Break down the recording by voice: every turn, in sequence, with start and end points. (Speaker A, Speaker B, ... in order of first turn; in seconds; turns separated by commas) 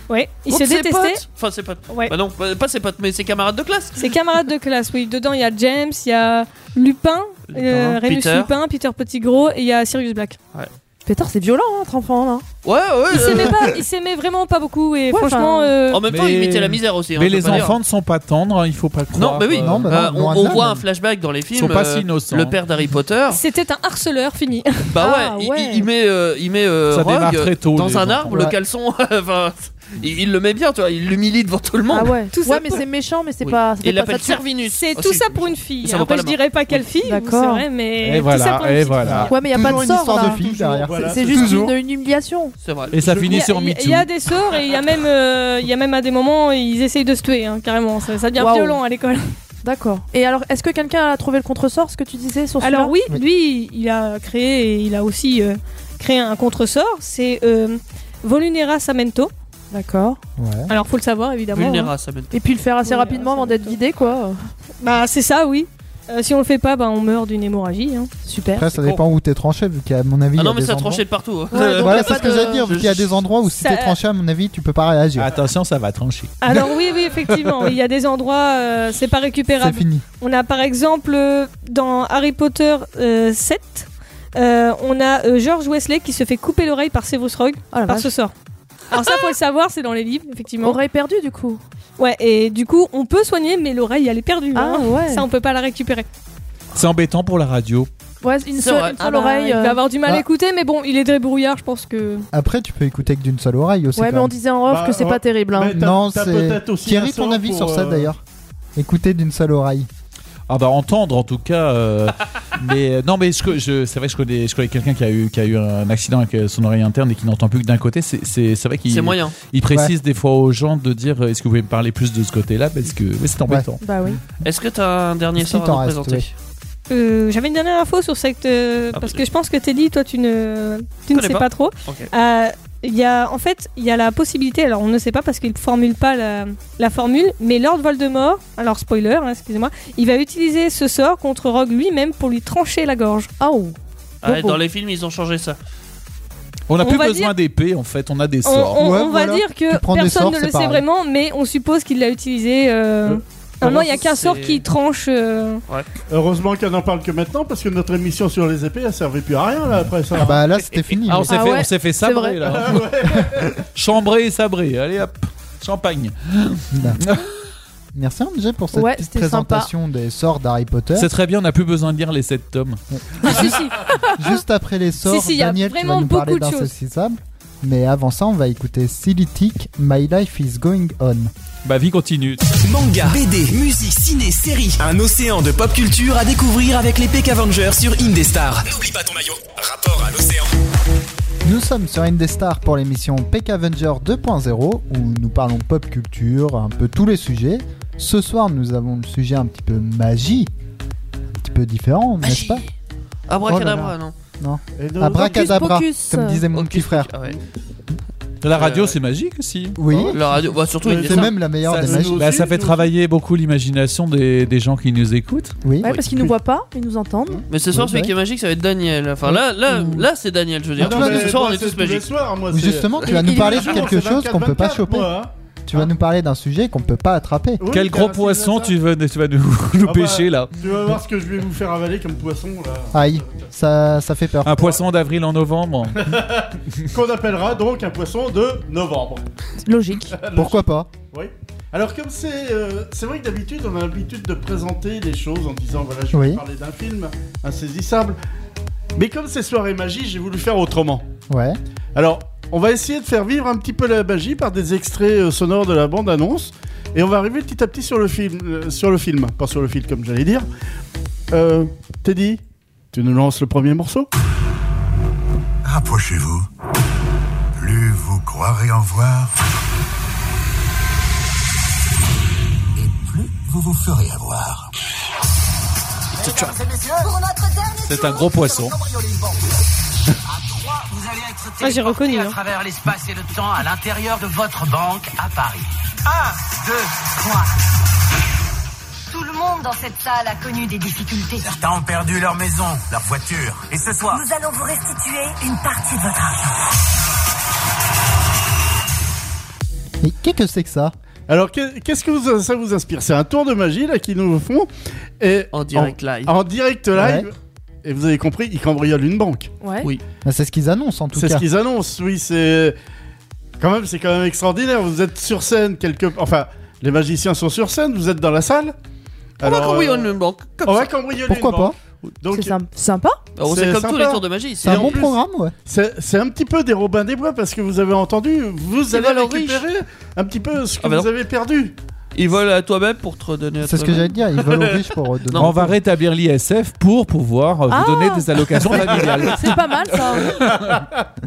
Speaker A: 0.1-1.2, Speaker B: 0.5-4.1, Speaker A: 4.0-10.4, Speaker B: 7.5-8.5, Speaker C: 11.1-12.4, Speaker B: 12.6-13.8, Speaker A: 13.1-16.0, Speaker C: 15.1-15.7, Speaker B: 15.9-17.8, Speaker D: 16.1-20.0, Speaker B: 19.1-23.4, Speaker E: 19.5-20.8, Speaker D: 21.5-22.6, Speaker A: 23.3-24.9, Speaker B: 24.9-32.1, Speaker C: 25.0-25.9, Speaker D: 26.9-28.3, Speaker E: 28.3-28.6, Speaker C: 31.9-34.4, Speaker A: 32.3-32.8, Speaker B: 33.4-36.8, Speaker A: 34.7-39.3, Speaker C: 37.0-37.6, Speaker D: 38.0-39.3, Speaker E: 39.0-41.7, Speaker C: 39.3-42.5, Speaker F: 39.9-41.7, Speaker B: 42.6-43.0, Speaker F: 42.9-43.4, Speaker D: 42.9-44.1, Speaker A: 43.2-49.2, Speaker C: 48.4-48.8, Speaker C: 49.6-52.9, Speaker A: 52.6-59.3, Speaker C: 59.7-60.2, Speaker E: 60.4-60.7, Speaker A: 60.7-61.9, Speaker B: 61.5-62.3, Speaker C: 62.3-64.5, Speaker A: 62.8-63.8, Speaker A: 64.8-68.1, Speaker C: 68.2-68.7, Speaker E: 68.5-75.4, Speaker B: 70.3-73.1, Speaker C: 71.5-72.7, Speaker A: 73.5-73.9, Speaker D: 75.2-76.3, Speaker A: 76.4-88.3, Speaker E: 79.6-80.0, Speaker C: 87.7-88.1, Speaker A: 88.9-90.8, Speaker C: 90.6-91.6, Speaker A: 92.0-96.0, Speaker C: 94.5-95.2, Speaker D: 96.7-97.9, Speaker C: 98.2-99.8, Speaker B: 98.5-99.0, Speaker A: 99.0-102.3, Speaker E: 102.3-104.3, Speaker C: 104.0-105.8, Speaker F: 104.7-108.1, Speaker E: 105.7-108.2, Speaker E: 108.8-109.9, Speaker D: 110.5-123.8, Speaker B: 118.9-119.3, Speaker E: 123.5-124.2, Speaker C: 123.8-124.2, Speaker B: 124.4-126.3, Speaker E: 125.3-126.2, Speaker A: 126.9-143.3, Speaker B: 128.9-129.2, Speaker B: 131.1-132.1, Speaker C: 143.4-143.7, Speaker B: 144.2-145.6, Speaker C: 144.2-144.5, Speaker D: 146.7-148.8, Speaker A: 146.8-147.3, Speaker A: 148.4-155.6, Speaker E: 148.8-150.8, Speaker B: 153.6-154.6, Speaker F: 156.1-160.4, Speaker E: 160.1-161.5, Speaker D: 161.0-167.3, Speaker C: 161.3-162.4, Speaker F: 162.5-163.6, Speaker E: 166.7-167.0, Speaker E: 167.9-171.1, Speaker C: 168.7-169.7, Speaker D: 170.9-172.8, Speaker E: 172.9-181.3, Speaker A: 173.2-174.2, Speaker A: 175.0-176.7, Speaker D: 181.6-182.4, Speaker G: 182.6-188.8, Speaker E: 191.4-200.5, Speaker E: 201.4-202.6, Speaker B: 203.3-204.1, Speaker E: 203.5-207.1, Speaker F: 204.8-205.5, Speaker C: 205.1-206.4, Speaker B: 206.5-207.3, Speaker D: 208.4-209.8, Speaker B: 208.5-209.0, Speaker E: 209.8-210.2, Speaker B: 210.1-211.3, Speaker F: 210.8-212.9, Speaker E: 210.9-212.3, Speaker D: 211.6-215.6, Speaker E: 215.6-215.9, Speaker C: 215.8-217.4, Speaker B: 217.5-222.1, Speaker E: 217.7-218.1, Speaker E: 219.2-220.1, Speaker F: 220.8-225.9, Speaker E: 220.8-221.3, Speaker E: 222.5-225.1, Speaker C: 223.1-223.8, Speaker E: 225.7-227.6, Speaker F: 227.6-228.7, Speaker D: 227.7-230.5, Speaker F: 229.8-233.4, Speaker E: 232.9-234.8, Speaker D: 234.4-236.1, Speaker F: 236.0-239.2, Speaker C: 239.6-240.1, Speaker F: 240.1-248.2, Speaker E: 240.3-240.9, Speaker E: 246.1-246.4, Speaker F: 248.9-251.1, Speaker E: 251.3-251.6, Speaker F: 251.9-260.5, Speaker F: 261.3-262.4, Speaker F: 262.9-264.1, Speaker H: 265.6-266.5, Speaker H: 267.6-269.3, Speaker I: 273.1-274.0, Speaker I: 276.2-277.1, Speaker D: 276.2-276.5, Speaker J: 277.0-278.7, Speaker D: 277.9-278.7, Speaker I: 278.7-279.4, Speaker I: 280.3-287.5, Speaker A: 281.6-282.4, Speaker J: 289.2-289.8, Speaker J: 290.7-291.4, Speaker I: 291.2-294.3, Speaker J: 294.1-295.2, Speaker I: 295.6-296.3, Speaker E: 300.0-300.9, Speaker F: 301.3-304.7, Speaker F: 305.2-309.5, Speaker B: 305.5-306.3, Speaker E: 306.9-307.3, Speaker C: 309.6-309.9, Speaker E: 310.2-311.4, Speaker F: 311.1-312.8, Speaker F: 313.6-318.7, Speaker F: 319.4-320.1, Speaker B: 319.4-320.9, Speaker F: 320.6-322.6, Speaker E: 321.3-321.7, Speaker C: 322.3-323.2, Speaker B: 323.4-325.0, Speaker F: 323.4-331.7, Speaker E: 324.6-325.5, Speaker B: 328.9-329.6, Speaker B: 330.8-331.1, Speaker B: 332.1-335.6, Speaker E: 333.6-335.8, Speaker D: 335.3-340.8, Speaker C: 337.7-338.3, Speaker F: 338.7-339.3, Speaker C: 339.3-340.4, Speaker F: 340.4-341.0